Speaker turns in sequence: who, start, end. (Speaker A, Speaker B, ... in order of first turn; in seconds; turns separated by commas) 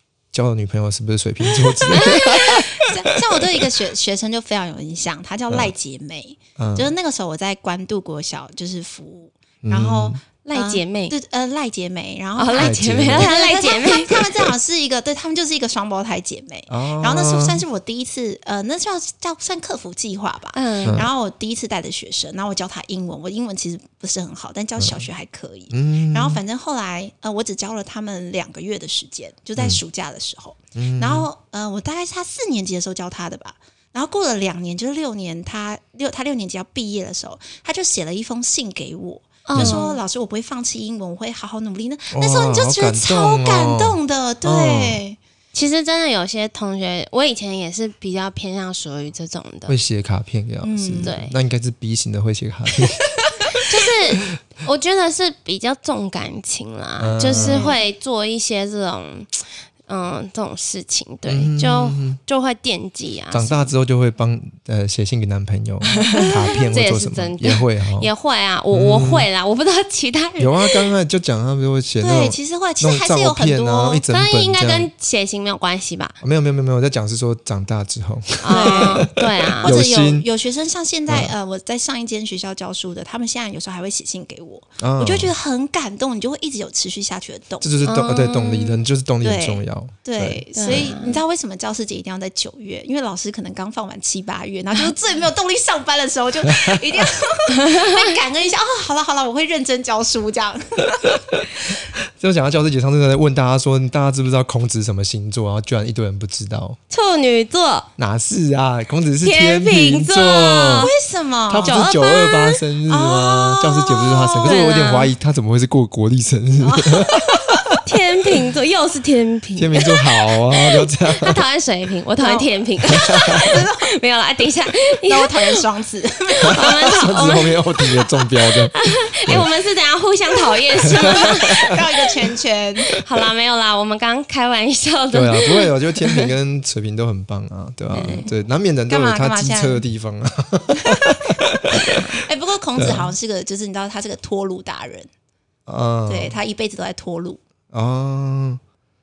Speaker A: 0.3-3.6, Speaker B: 1.5-45.2, Speaker A: 6.6-6.9, Speaker A: 9.6-10.2, Speaker C: 10.4-11.1, Speaker C: 12.4-14.3, Speaker A: 12.6-13.3, Speaker A: 16.7-17.6, Speaker C: 20.5-21.0, Speaker A: 24.8-25.0, Speaker A: 25.7-26.4, Speaker A: 30.8-31.3, Speaker C: 39.5-40.0, Speaker A: 39.5-39.8, Speaker A: 42.1-45.0, Speaker C: 45.5-49.8, Speaker A: 49.7-53.6, Speaker B: 50.6-51.1, Speaker C: 51.0-51.4, Speaker C: 53.6-63.7, Speaker A: 57.0-57.7, Speaker B: 57.3-57.8, Speaker A: 61.3-62.2, Speaker A: 63.3-68.1, Speaker C: 66.0-70.8, Speaker A: 68.7-69.3, Speaker A: 70.4-74.9, Speaker B: 72.0-74.0, Speaker C: 74.1-76.2, Speaker A: 76.2-80.3, Speaker C: 78.4-79.7, Speaker B: 78.5-79.1, Speaker B: 79.6-87.8, Speaker A: 81.1-81.3, Speaker A: 84.8-85.3, Speaker A: 87.6-90.4, Speaker C: 87.8-88.8, Speaker B: 89.2-101.4, Speaker C: 90.5-91.2, Speaker A: 96.5-96.7, Speaker C: 97.5-98.1, Speaker A: 102.0-106.8, Speaker C: 106.9-107.9, Speaker A: 108.0-110.9, Speaker C: 109.2-110.9, Speaker B: 110.8-114.6, Speaker A: 111.5-117.8, Speaker C: 111.6-112.2, Speaker C: 114.4-115.1, Speaker B: 116.6-117.8, Speaker C: 117.8-125.6, Speaker A: 119.6-121.4, Speaker B: 122.2-123.9, Speaker A: 122.9-123.5, Speaker B: 125.1-127.0, Speaker C: 126.3-131.8, Speaker A: 126.5-129.5, Speaker A: 130.9-131.8, Speaker B: 130.9-133.0, Speaker C: 133.0-136.3, Speaker A: 135.1-142.0, Speaker C: 137.9-138.3, Speaker B: 138.0-138.3, Speaker B: 138.9-139.8, Speaker B: 140.8-141.2, Speaker C: 141.7-142.2, Speaker B: 142.1-145.1, Speaker A: 142.8-143.1, Speaker A: 145.7-146.4, Speaker B: 146.1-147.4, Speaker A: 147.7-148.6